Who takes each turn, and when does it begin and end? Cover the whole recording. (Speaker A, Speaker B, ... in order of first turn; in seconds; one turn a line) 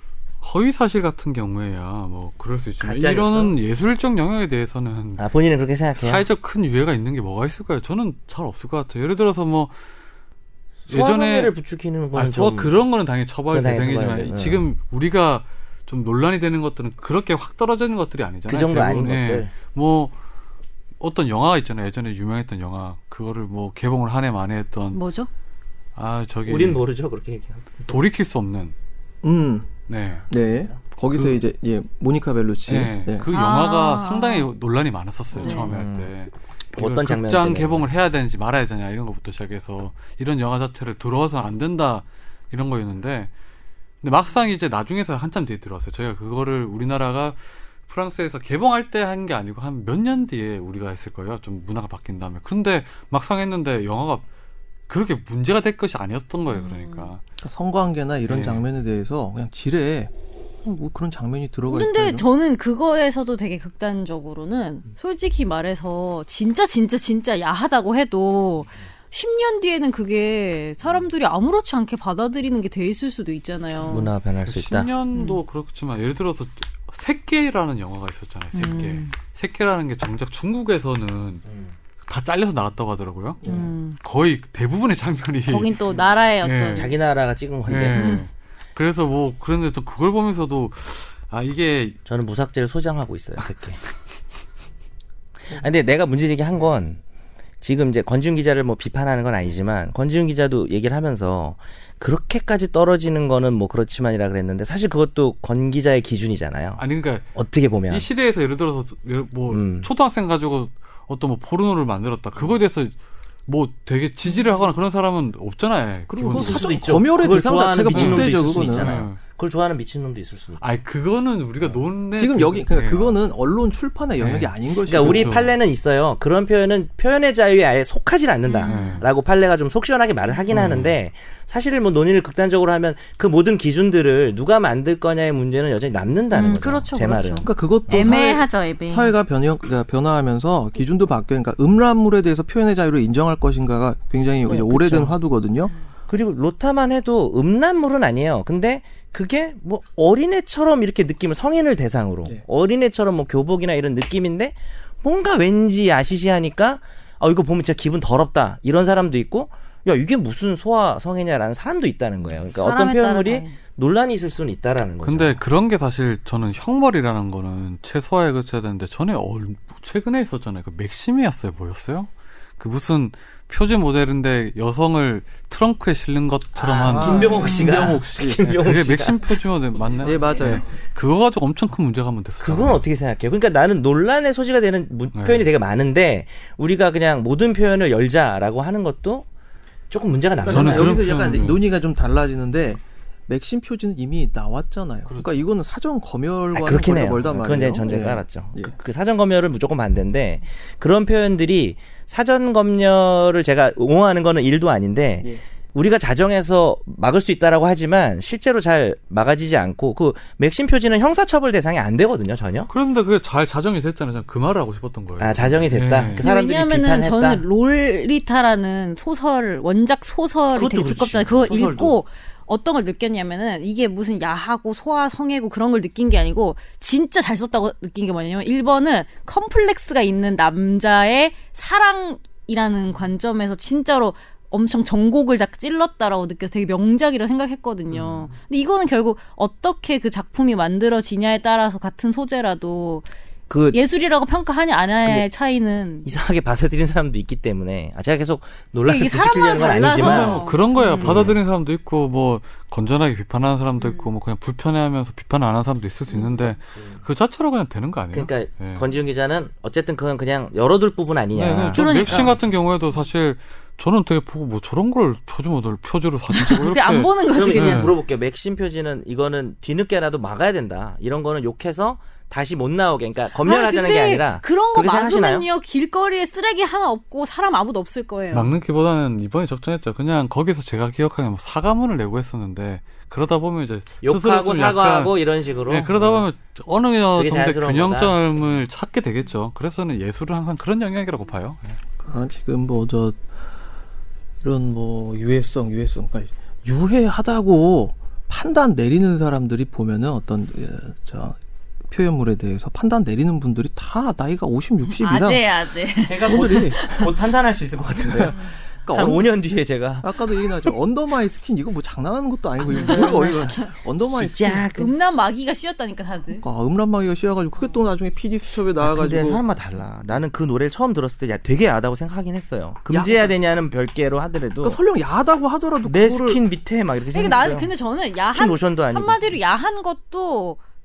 Speaker A: 0.4-5.2
Speaker B: 2.8-3.6
Speaker B: 5.2-6.2
Speaker A: 6.0-9.7
Speaker B: 10.8-12.8
Speaker A: 10.9-11.5
Speaker A: 12.1-20.1
Speaker B: 13.5-14.7
Speaker B: 18.5-19.5
Speaker A: 21.0-25.0
Speaker C: 24.9-25.3
Speaker A: 26.0-26.8
Speaker B: 26.4-28.0
Speaker A: 27.9-28.7
Speaker D: 29.2-29.7
Speaker A: 29.9-30.3
Speaker B: 30.3-30.8
Speaker D: 30.3-33.3
Speaker A: 31.1-31.4
Speaker A: 32.7-43.3
Speaker C: 33.3-34.5
Speaker B: 35.3-36.1
Speaker C: 35.4-35.7
Speaker B: 36.7-37.9
Speaker A: 44.0-54.2
Speaker A: 54.9-57.2
Speaker C: 56.5-57.1
Speaker D: 57.4-60.1
Speaker A: 58.3-58.6
Speaker D: 60.6-62.3
Speaker C: 61.7-74.1
Speaker B: 73.8-74.9
Speaker A: 74.5-81.4
Speaker C: 75.1-75.4
Speaker C: 78.5-79.2
Speaker B: 81.5-81.8
Speaker A: 82.1-83.4
Speaker D: 83.4-83.7
Speaker C: 83.4-84.0
Speaker A: 84.0-85.8
Speaker C: 85.5-86.9
Speaker A: 86.4-86.9
Speaker B: 86.7-88.2
Speaker A: 87.7-92.0
Speaker C: 87.9-88.2
Speaker B: 92.1-93.8
Speaker B: 95.5-97.0
Speaker B: 97.6-106.8
Speaker A: 106.8-107.3
Speaker B: 107.3-108.0
Speaker A: 107.9-112.9
Speaker B: 109.5-109.9
Speaker A: 113.5-116.8
Speaker C: 114.2-114.7
Speaker D: 116.1-119.0
Speaker B: 116.3-120.7
Speaker A: 117.9-119.2
Speaker A: 120.6-123.2
Speaker D: 122.2-125.3
Speaker A: 124.2-125.5
Speaker B: 124.8-138.2
Speaker C: 128.5-129.0
Speaker A: 128.7-129.1
Speaker A: 130.5-130.9
Speaker C: 136.3-139.1
Speaker D: 137.4-145.7
Speaker B: 144.4-145.2
Speaker B: 146.1-165.4
Speaker C: 162.6-163.6
Speaker A: 165.0-177.4
Speaker D: 176.6-178.4
Speaker B: 176.8-179.4
Speaker C: 177.4-177.7
Speaker A: 178.4-182.8
Speaker D: 180.0-180.7
Speaker B: 182.4-189.3
Speaker A: 185.1-185.4
Speaker B: 189.9-191.2
Speaker D: 190.4-198.8
Speaker A: 190.4-191.6
Speaker A: 195.1-195.4
Speaker B: 196.5-212.7
Speaker A: 212.7-216.2
Speaker B: 215.2-217.4
Speaker C: 216.2-243.1
Speaker B: 220.6-222.0
Speaker B: 237.9-238.3
Speaker B: 243.5-243.8
Speaker C: 243.7-246.1
Speaker B: 246.1-251.4
Speaker C: 248.8-251.3
Speaker A: 249.9-258.9
Speaker C: 253.8-254.1
Speaker C: 256.1-256.5
Speaker B: 258.1-262.4
Speaker A: 261.4-267.9
Speaker C: 261.7-262.4
Speaker C: 266.3-267.9
Speaker B: 267.3-275.5
Speaker C: 273.4-278.5
Speaker A: 278.3-285.1
Speaker B: 284.0-286.3
Speaker A: 285.7-291.8
Speaker B: 287.1-288.2
Speaker D: 292.0-293.2
Speaker D: 294.4-301.4
Speaker D: 301.9-305.4
Speaker C: 304.9-307.1
Speaker B: 306.1-310.1
Speaker D: 306.3-307.1
Speaker D: 308.1-308.4
Speaker D: 308.9-309.3
Speaker D: 310.0-314.7
Speaker C: 312.7-313.7
Speaker B: 312.7-314.9
Speaker C: 314.8-316.4
Speaker D: 316.4-319.4
Speaker B: 318.8-324.8
Speaker D: 322.9-323.4
Speaker D: 324.6-326.4
Speaker B: 325.9-327.7
Speaker C: 327.1-330.6
Speaker B: 328.3-329.3